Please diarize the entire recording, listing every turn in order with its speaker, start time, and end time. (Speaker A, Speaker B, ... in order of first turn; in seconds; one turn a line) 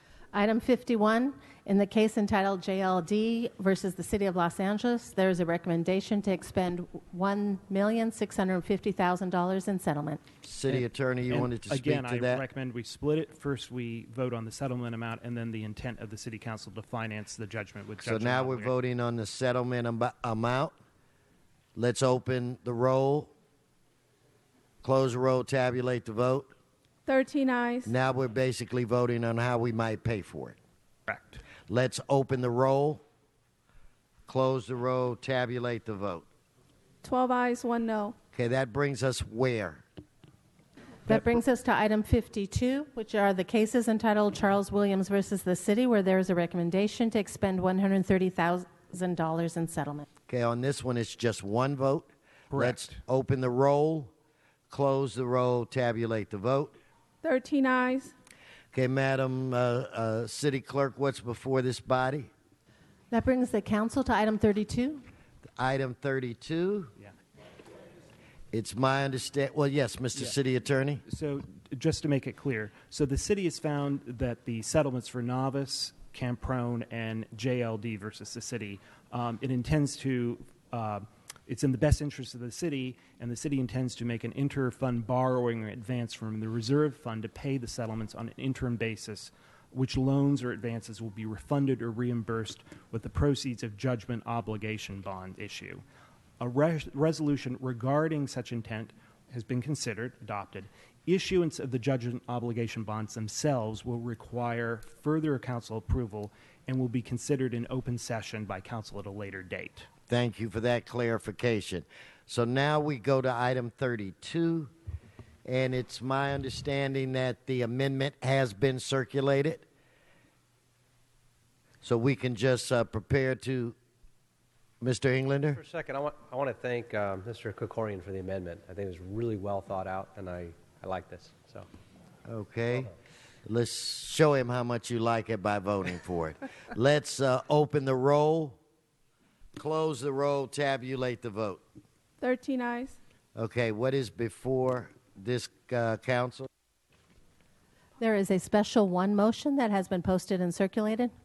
Speaker A: 0.3-10.2
Speaker B: 10.4-12.4
Speaker C: 10.7-18.7
Speaker B: 18.0-20.7
Speaker B: 21.8-23.3
Speaker B: 24.8-26.5
Speaker D: 27.1-27.9
Speaker B: 27.9-30.6
Speaker C: 31.1-31.4
Speaker B: 31.7-33.0
Speaker B: 34.3-36.2
Speaker D: 37.0-38.1
Speaker B: 38.3-39.8
Speaker A: 41.0-50.1
Speaker B: 50.3-54.1
Speaker C: 52.5-53.0
Speaker B: 54.7-56.8
Speaker D: 57.2-58.1
Speaker B: 58.7-62.3
Speaker A: 63.1-65.0
Speaker B: 65.6-66.9
Speaker B: 68.5-71.0
Speaker C: 71.1-95.8
Speaker C: 96.4-109.9
Speaker B: 110.1-114.7
Speaker B: 115.4-119.7
Speaker B: 121.8-123.8
Speaker B: 124.8-125.6
Speaker E: 125.5-131.7
Speaker B: 132.3-132.9
Speaker B: 133.4-138.6
Speaker B: 139.6-141.6
Speaker D: 142.2-143.0
Speaker B: 143.3-146.5
Speaker A: 148.0-151.1